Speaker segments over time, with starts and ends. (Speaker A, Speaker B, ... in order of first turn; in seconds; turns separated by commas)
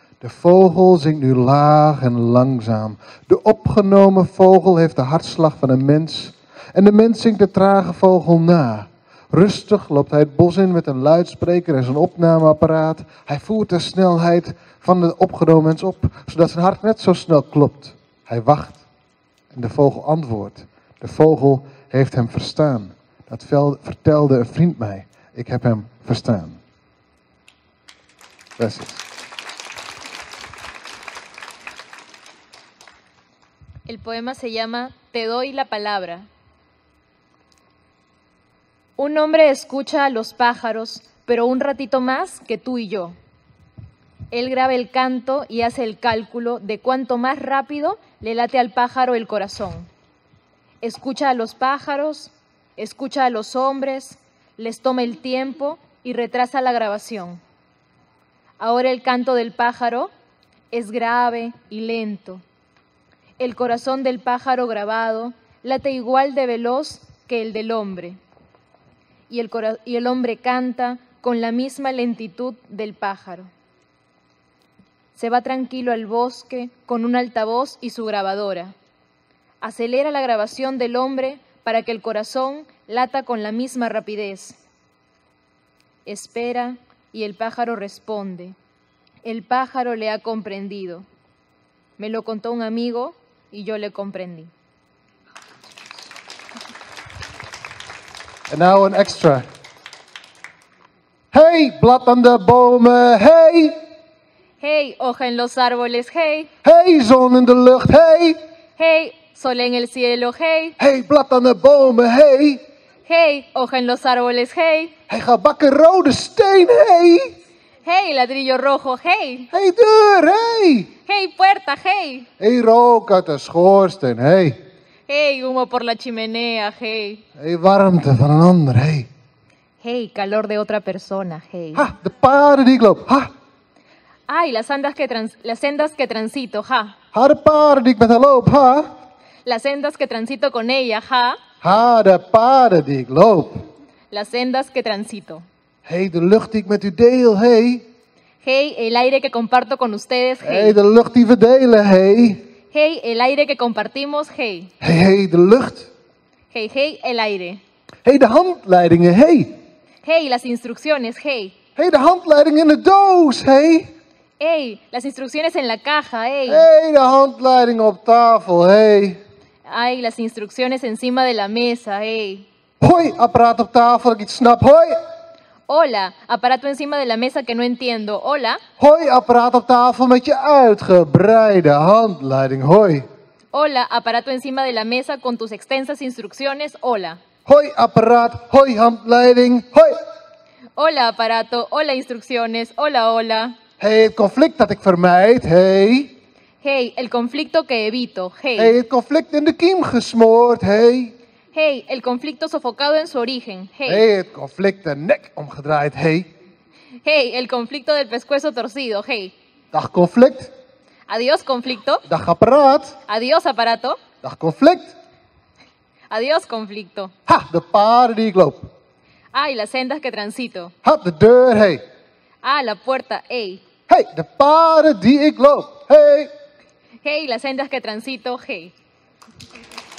Speaker A: 0.2-18.8, Speaker A: 19.5-26.6, Speaker A: 28.6-29.0, Speaker B: 33.9-36.3, Speaker B: 39.0-43.1, Speaker B: 44.3-49.9, Speaker B: 50.8-57.4, Speaker B: 58.6-60.1, Speaker B: 60.7-62.4, Speaker B: 63.4-68.2, Speaker B: 69.3-73.5, Speaker B: 75.2-78.7, Speaker B: 79.6-84.6, Speaker B: 86.1-88.5, Speaker B: 89.2-91.0, Speaker B: 92.0-94.5, Speaker A: 98.5-99.5, Speaker A: 101.3-103.8, Speaker B: 104.6-106.5, Speaker A: 106.6-108.4, Speaker B: 108.8-110.8, Speaker A: 110.8-112.6, Speaker B: 113.1-114.9, Speaker A: 115.1-117.3, Speaker B: 117.8-119.5, Speaker A: 119.5-120.9, Speaker B: 121.1-122.3, Speaker A: 122.4-124.6, Speaker B: 125.1-127.2, Speaker A: 127.4-129.1, Speaker B: 129.8-131.9, Speaker A: 131.8-133.3, Speaker B: 134.3-136.9, Speaker A: 137.1-138.9, Speaker B: 139.4-141.4, Speaker A: 141.6-143.6, Speaker B: 144.1-145.5, Speaker A: 145.8-147.8, Speaker B: 148.4-150.8, Speaker A: 150.4-152.4, Speaker B: 152.7-154.7, Speaker A: 154.8-155.9, Speaker B: 156.5-157.6, Speaker A: 158.1-159.6, Speaker B: 160.0-161.6, Speaker A: 161.8-163.9, Speaker B: 164.4-166.7, Speaker A: 166.5-169.2, Speaker B: 169.7-172.5, Speaker A: 172.8-174.9, Speaker B: 175.7-178.6, Speaker A: 178.8-183.1, Speaker B: 183.5-187.2, Speaker A: 187.5-189.9, Speaker B: 190.8-193.6, Speaker A: 193.8-196.1, Speaker B: 196.6-198.8, Speaker A: 198.6-201.1, Speaker B: 201.5-204.1, Speaker A: 203.9-206.3, Speaker B: 207.0-209.3, Speaker A: 209.7-210.5, Speaker B: 211.1-212.0, Speaker A: 212.1-213.0, Speaker B: 213.1-214.0, Speaker A: 214.2-214.9, Speaker B: 216.1-217.1, Speaker A: 217.3-218.7, Speaker B: 219.3-220.7, Speaker A: 220.8-221.8, Speaker B: 222.4-223.6, Speaker A: 223.9-226.3, Speaker B: 227.0-228.7